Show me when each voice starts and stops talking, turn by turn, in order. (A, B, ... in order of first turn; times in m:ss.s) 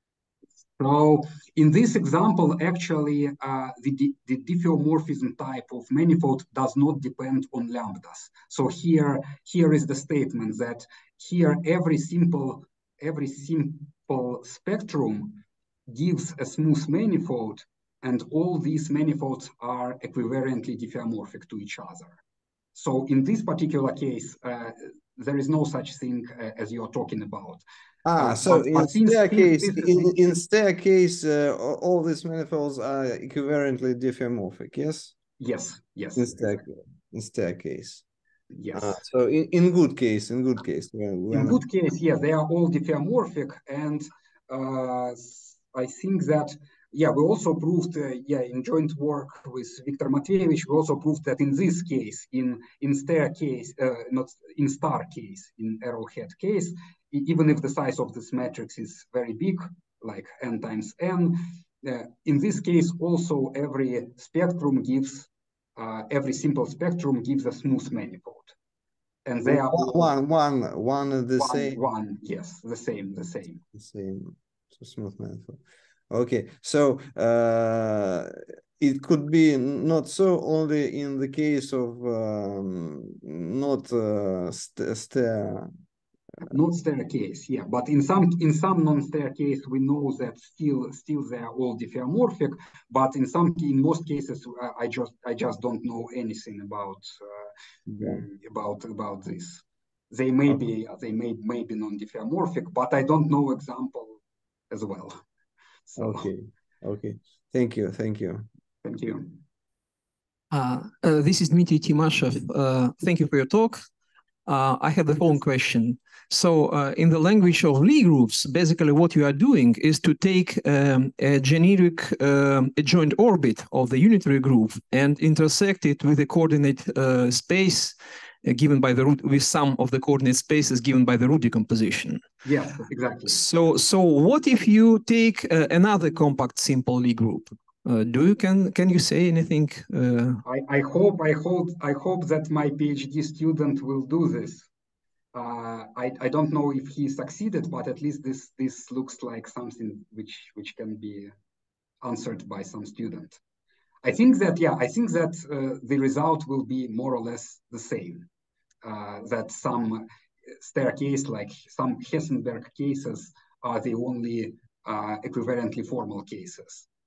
0:00.8-0:22.2 A
0:22.7-0:27.6 A
0:28.0-0:35.1 B
0:28.2-0:30.1 A
0:35.4-0:36.6 A
0:36.2-0:38.0 B
0:38.5-0:39.0 A
0:38.7-0:41.6 B
0:41.3-1:08.5 A
1:09.2-1:10.1 A
1:09.4-1:11.8 B
1:11.4-1:13.6 A
1:13.7-1:25.7 B
1:26.4-1:37.5 A
1:37.9-1:38.2 B
1:38.1-1:44.2 A
1:44.7-1:45.2 A
1:45.9-1:46.3 A
1:46.0-1:48.5 B
1:48.8-1:49.4 A
1:50.5-1:53.8 C
1:54.4-2:12.2 C
2:12.4-2:13.4 A
2:13.3-2:20.4 C
2:20.4-2:24.7 A
2:25.3-2:31.3 A
2:32.0-2:33.4 A
2:34.0-2:38.2 A
2:38.8-2:40.0 A
2:40.6-2:46.8 A